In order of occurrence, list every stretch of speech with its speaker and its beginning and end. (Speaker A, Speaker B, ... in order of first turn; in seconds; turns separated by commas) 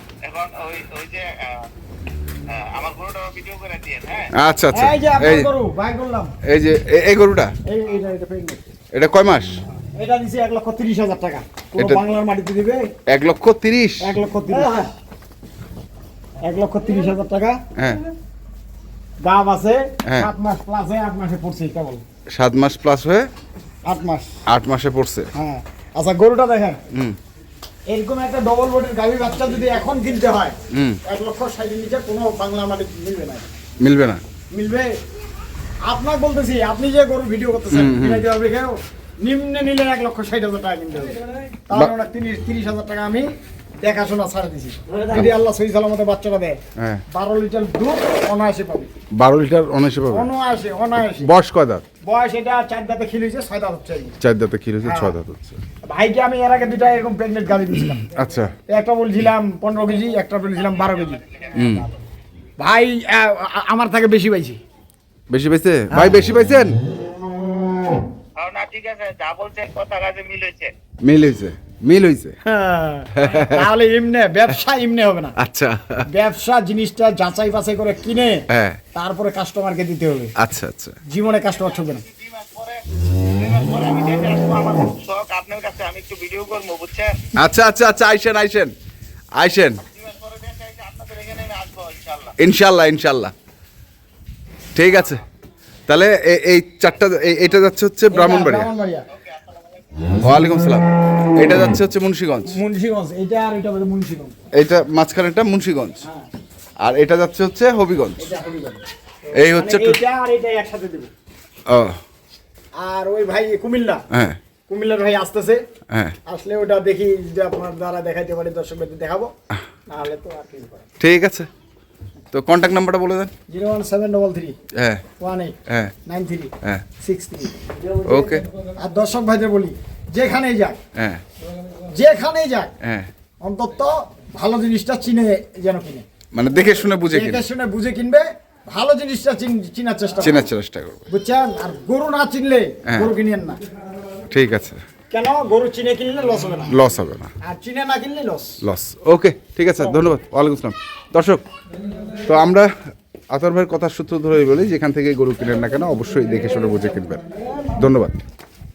Speaker A: 0.2-1.6, Speaker A: 2.5-4.3, Speaker B: 4.3-5.5, Speaker C: 4.7-6.3, Speaker B: 6.4-7.5, Speaker C: 7.7-8.7, Speaker B: 8.9-9.6, Speaker C: 9.9-12.8, Speaker B: 11.8-12.0, Speaker B: 13.1-14.1, Speaker C: 14.0-14.9, Speaker C: 16.4-17.6, Speaker C: 19.2-22.0, Speaker B: 20.1-20.3, Speaker B: 22.3-23.3, Speaker C: 23.8-24.3, Speaker B: 24.5-25.3, Speaker C: 25.3-26.8, Speaker B: 26.9-27.2, Speaker C: 27.9-33.6, Speaker B: 30.7-31.0, Speaker B: 33.8-34.2, Speaker C: 34.5-34.9, Speaker C: 35.8-41.2, Speaker B: 37.7-38.3, Speaker C: 41.7-43.3, Speaker C: 43.8-46.6, Speaker B: 46.8-47.0, Speaker C: 47.1-48.9, Speaker B: 49.1-50.3, Speaker C: 50.1-51.3, Speaker B: 51.0-51.8, Speaker C: 52.0-54.1, Speaker B: 54.2-55.6, Speaker C: 54.8-55.1, Speaker C: 55.8-58.1, Speaker B: 58.1-58.5, Speaker C: 58.7-61.2, Speaker A: 60.5-61.9, Speaker B: 61.5-61.9, Speaker C: 62.6-64.6, Speaker B: 65.3-66.8, Speaker A: 68.3-70.7, Speaker B: 71.0-72.3, Speaker C: 72.4-75.4, Speaker B: 73.2-73.6, Speaker B: 75.4-76.0, Speaker C: 76.1-80.3, Speaker B: 78.5-78.8, Speaker B: 80.4-81.0, Speaker C: 81.0-82.0, Speaker A: 81.5-87.2, Speaker B: 87.3-88.7, Speaker B: 89.4-89.8, Speaker A: 89.8-92.3, Speaker B: 92.4-93.3, Speaker B: 94.7-95.2, Speaker B: 95.9-98.7, Speaker C: 98.1-99.0, Speaker A: 99.1-100.2, Speaker B: 100.2-102.6, Speaker C: 102.4-104.3, Speaker B: 104.5-106.0, Speaker C: 106.0-106.3, Speaker B: 106.8-108.3, Speaker C: 108.2-111.1, Speaker B: 109.3-110.0, Speaker B: 111.7-112.0, Speaker C: 112.8-114.0, Speaker B: 114.1-114.4, Speaker C: 114.7-115.6, Speaker B: 115.9-116.2, Speaker C: 116.2-119.3, Speaker C: 119.9-120.9, Speaker B: 121.0-121.5, Speaker B: 122.3-123.3, Speaker C: 123.5-124.5, Speaker B: 124.7-125.0, Speaker C: 125.2-130.8, Speaker B: 125.7-125.9, Speaker B: 128.0-128.4, Speaker B: 130.9-131.2, Speaker C: 131.9-132.7, Speaker B: 132.8-133.1, Speaker C: 133.4-136.1, Speaker B: 136.3-137.4, Speaker C: 137.1-140.5, Speaker B: 140.2-141.1, Speaker C: 141.1-143.6, Speaker B: 142.8-143.1, Speaker B: 144.3-144.8, Speaker C: 145.1-146.8, Speaker B: 146.7-147.3, Speaker C: 147.4-148.6, Speaker B: 148.6-151.4, Speaker C: 149.8-150.0, Speaker B: 152.2-152.7, Speaker B: 153.3-157.2, Speaker C: 157.3-157.8, Speaker B: 157.8-158.2